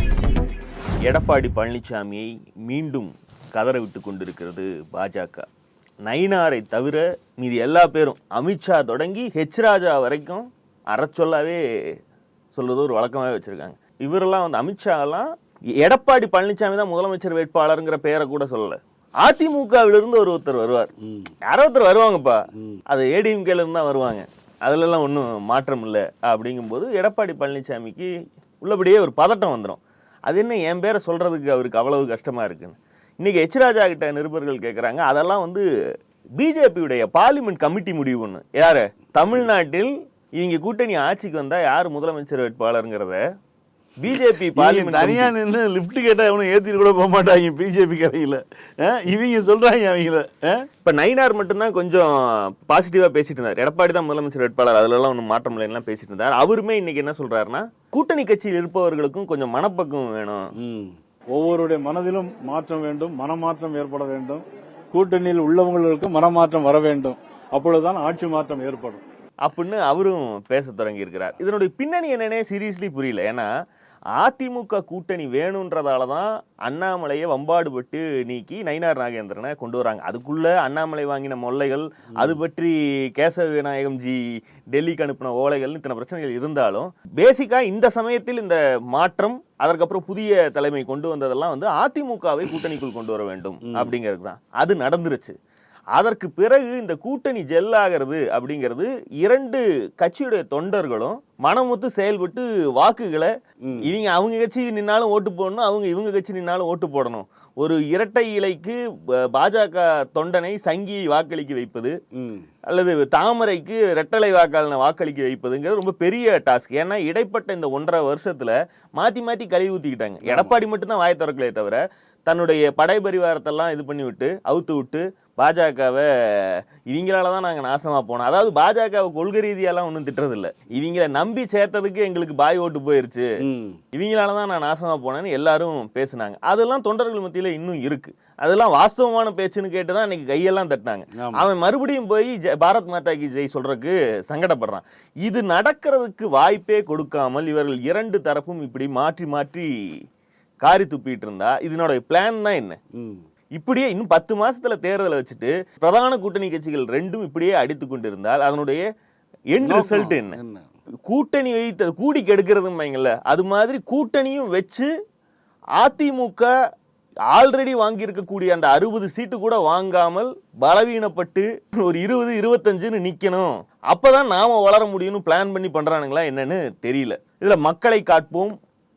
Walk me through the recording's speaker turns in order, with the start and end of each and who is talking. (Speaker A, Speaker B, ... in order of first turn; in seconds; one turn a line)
Speaker A: 1.0-5.5
Speaker A: 6.0-11.6
Speaker A: 12.5-15.3
Speaker A: 15.8-20.9
Speaker B: 21.0-21.3
Speaker A: 21.5-28.1
Speaker B: 22.6-22.8
Speaker A: 28.6-35.6
Speaker A: 36.4-43.2
Speaker A: 44.0-45.3
Speaker B: 44.5-50.7
Speaker A: 50.9-60.5
Speaker B: 60.6-61.0
Speaker C: 61.3-69.0
Speaker A: 69.4-73.5
Speaker A: 74.2-95.3
Speaker B: 93.7-93.9
Speaker A: 96.0-112.0
Speaker B: 112.1-112.5
Speaker A: 112.7-133.3
Speaker B: 120.2-120.6
Speaker B: 133.4-133.8
Speaker A: 133.9-149.7
Speaker B: 141.2-141.4
Speaker A: 150.6-152.8
Speaker B: 152.9-153.2
Speaker A: 153.6-158.8
Speaker A: 159.5-160.4
Speaker B: 159.7-160.7
Speaker A: 161.1-164.9
Speaker A: 165.8-166.5
Speaker A: 167.3-178.6